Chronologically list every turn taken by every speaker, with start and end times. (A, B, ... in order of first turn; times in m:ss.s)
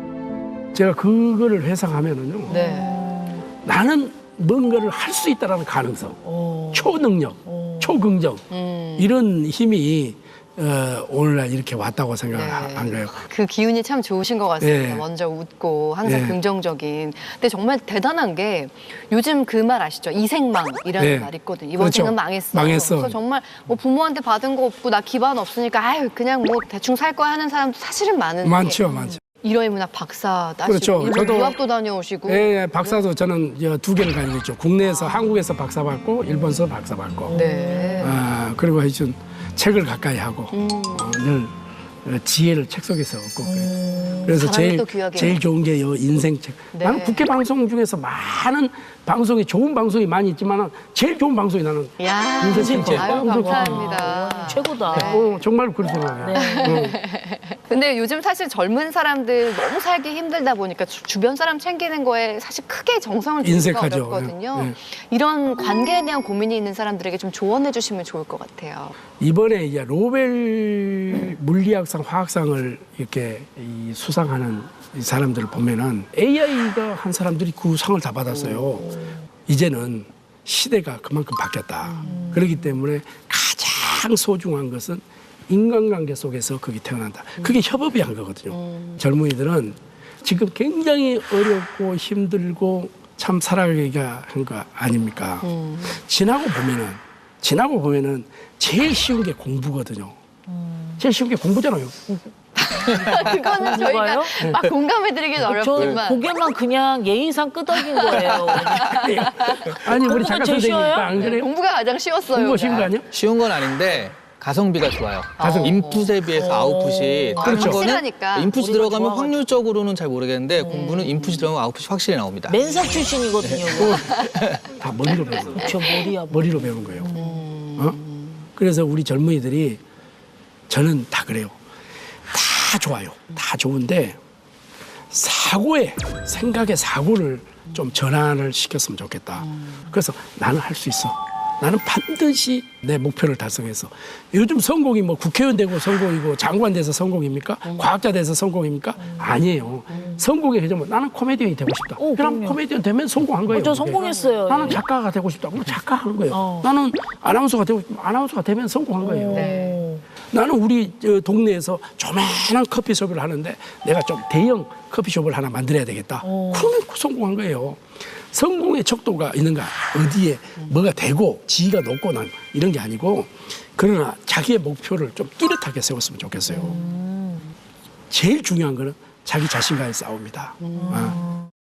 0:00.7-0:02.6 A
0:02.5-0:03.4 B
0:02.5-0:03.0 C
0:03.6-0:06.2 A
0:06.2-0:08.0 B
0:06.7-0:08.4 A
0:08.5-0:09.1 C
0:09.0-0:13.2 A
0:12.3-0:33.1 C
0:14.6-0:15.0 A
0:16.0-0:16.4 A
0:21.0-0:23.2 A
0:28.4-0:29.2 A
0:28.9-0:29.2 B
0:30.6-0:31.6 A
0:32.3-0:37.4 A
0:34.8-0:35.3 C
0:37.2-0:38.2 B
0:37.3-0:38.2 C
0:38.0-0:43.7 A
0:40.5-0:41.1 C
0:43.4-0:44.5 B
0:44.2-0:54.0 A
0:44.2-0:45.4 C
0:46.7-0:47.2 C
0:52.0-0:55.4 C
0:52.5-0:55.2 B
0:54.9-0:57.0 A
0:56.2-0:56.9 B
0:56.3-1:09.0 C
1:03.4-1:04.7 A
1:09.2-1:18.9 A
1:18.3-1:18.8 C
1:19.4-1:40.2 A
1:21.8-1:22.2 C
1:22.0-1:22.7 B
1:28.5-1:29.0 C
1:35.4-1:36.0 C
1:40.5-1:41.0 B
1:41.0-1:42.0 A
1:42.6-1:46.2 C
1:42.8-1:44.4 B
1:45.4-1:51.2 B
1:47.7-1:49.7 C
1:48.7-1:51.5 A
1:51.1-1:52.9 C
1:52.3-1:53.1 A
1:53.1-2:02.6 D
1:55.4-1:56.8 C
1:55.4-1:55.8 A
1:56.4-1:57.5 B
1:57.4-1:58.5 C
1:57.4-1:57.8 A
1:58.4-1:59.5 B
2:00.6-2:01.1 B
2:00.7-2:01.5 C
2:02.5-2:04.2 B
2:03.4-2:04.6 D
2:03.7-2:07.1 A
2:05.5-2:07.4 B
2:07.1-2:08.4 C
2:08.6-2:09.8 A
2:10.7-2:11.6 A
2:12.3-2:14.2 A
2:15.1-2:39.5 A
2:29.0-2:29.4 B
2:29.9-2:30.2 B
2:32.0-2:32.6 B
2:33.5-2:34.8 B
2:33.9-2:34.3 C
2:36.3-2:36.7 B
2:39.0-2:40.0 B
2:39.3-2:39.8 C
2:40.3-2:56.8 A
2:46.2-2:46.7 B
2:56.5-2:56.8 C
2:56.5-2:57.4 B
2:58.1-3:01.2 A
3:00.6-3:01.2 C
3:00.7-3:01.5 B